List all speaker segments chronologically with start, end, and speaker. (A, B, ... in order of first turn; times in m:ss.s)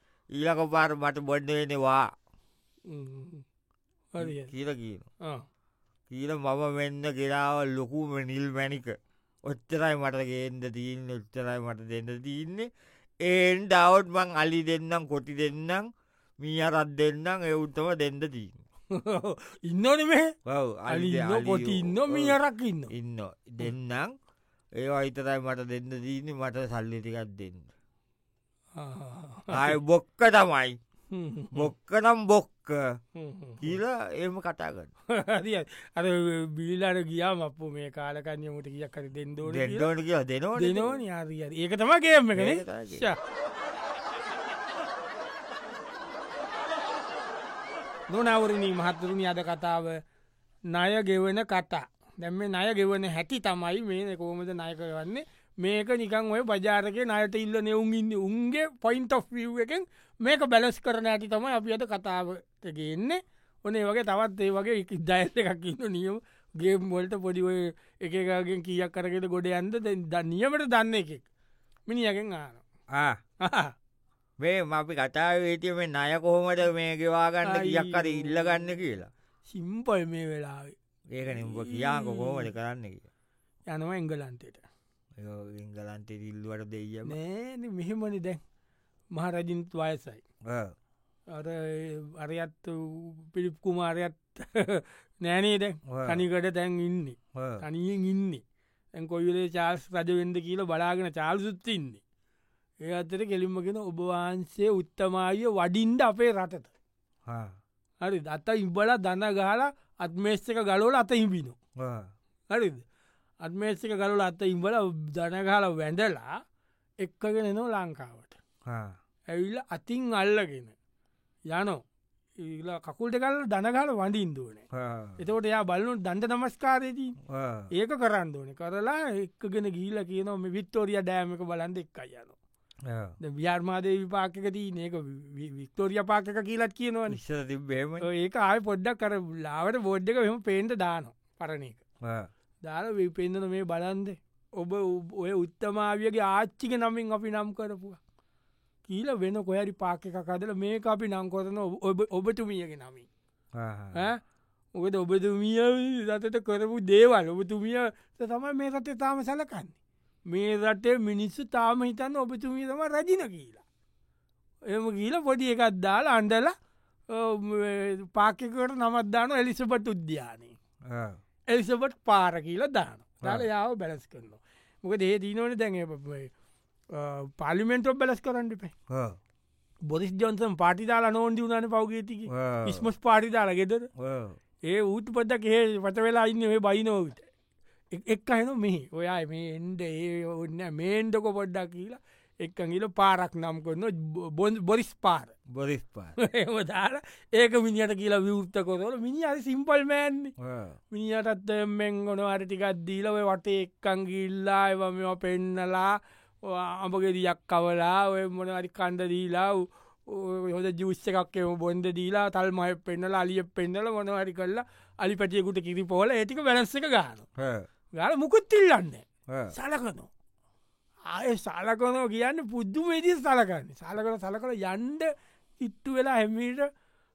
0:00.4-0:02.1 A
0:02.9-0:03.4 B
0:04.1-0:04.5 B
0:04.2-0:05.1 A
0:06.1-0:12.7 A
0:13.2-0:15.9 A
0:16.4-0:18.6 A
0:18.9-0:20.3 B
0:20.5-0:22.4 A
0:20.9-0:22.9 B
0:22.9-0:24.1 A
0:24.8-0:27.7 A
0:28.8-0:29.8 B
0:29.5-0:30.8 A
0:31.1-0:31.7 B
0:31.5-0:33.0 A
0:33.2-0:33.8 B
0:33.6-0:34.9 A
0:35.1-0:39.9 B
0:39.4-0:41.0 A
0:40.6-0:43.2 B
0:42.4-0:43.1 A
0:48.1-0:50.0 B
0:50.7-1:11.3 B
1:11.9-1:12.6 B
1:12.9-1:13.2 A
1:13.4-1:13.7 B
1:14.4-1:19.1 A
1:17.4-1:18.6 B
1:19.5-1:20.7 B
1:21.1-1:23.1 A
1:21.3-1:22.5 B
1:23.7-1:24.7 B
1:25.2-1:27.2 A
1:27.1-1:28.4 B
1:29.1-1:30.2 B
1:30.5-1:30.7 A
1:31.3-1:38.4 B
1:35.9-1:36.2 A
1:37.4-1:37.6 A
1:39.0-1:42.0 B
1:42.8-1:46.7 B
1:47.3-1:47.6 A
1:48.0-1:51.6 B
1:51.8-1:52.1 A
1:52.5-1:52.8 B
1:53.4-1:56.3 B
1:57.0-1:58.4 B
1:58.7-1:59.0 A
1:59.3-2:00.7 B
2:01.5-2:01.8 B
2:02.4-2:04.6 B
2:04.7-2:05.2 A
2:05.2-2:07.2 B
2:07.3-2:07.7 A
2:07.7-2:12.4 B
2:12.9-2:13.2 A
2:13.2-2:17.2 B
2:17.1-2:18.0 A
2:18.0-2:21.8 B
2:22.0-2:22.3 A
2:22.6-2:28.0 B
2:28.9-2:33.1 B
2:33.6-2:34.1 A
2:34.0-2:34.2 B
2:34.8-2:39.8 B
2:40.3-2:43.6 B
2:44.7-2:46.5 B
2:47.1-2:50.6 B
2:50.9-2:51.2 A
2:51.5-2:56.3 B
2:53.2-2:53.5 A
2:56.9-2:58.7 B
2:58.9-2:59.2 A
2:59.9-3:03.9 B
3:02.3-3:02.9 A
3:04.0-3:04.4 A
3:04.7-3:07.3 B
3:07.9-3:15.3 B
3:15.5-3:16.2 A
3:16.2-3:20.3 B
3:20.4-3:20.8 A
3:20.9-3:37.3 B
3:37.4-3:37.7 A
3:38.0-3:40.1 B
3:39.3-3:39.6 A
3:41.1-3:46.7 B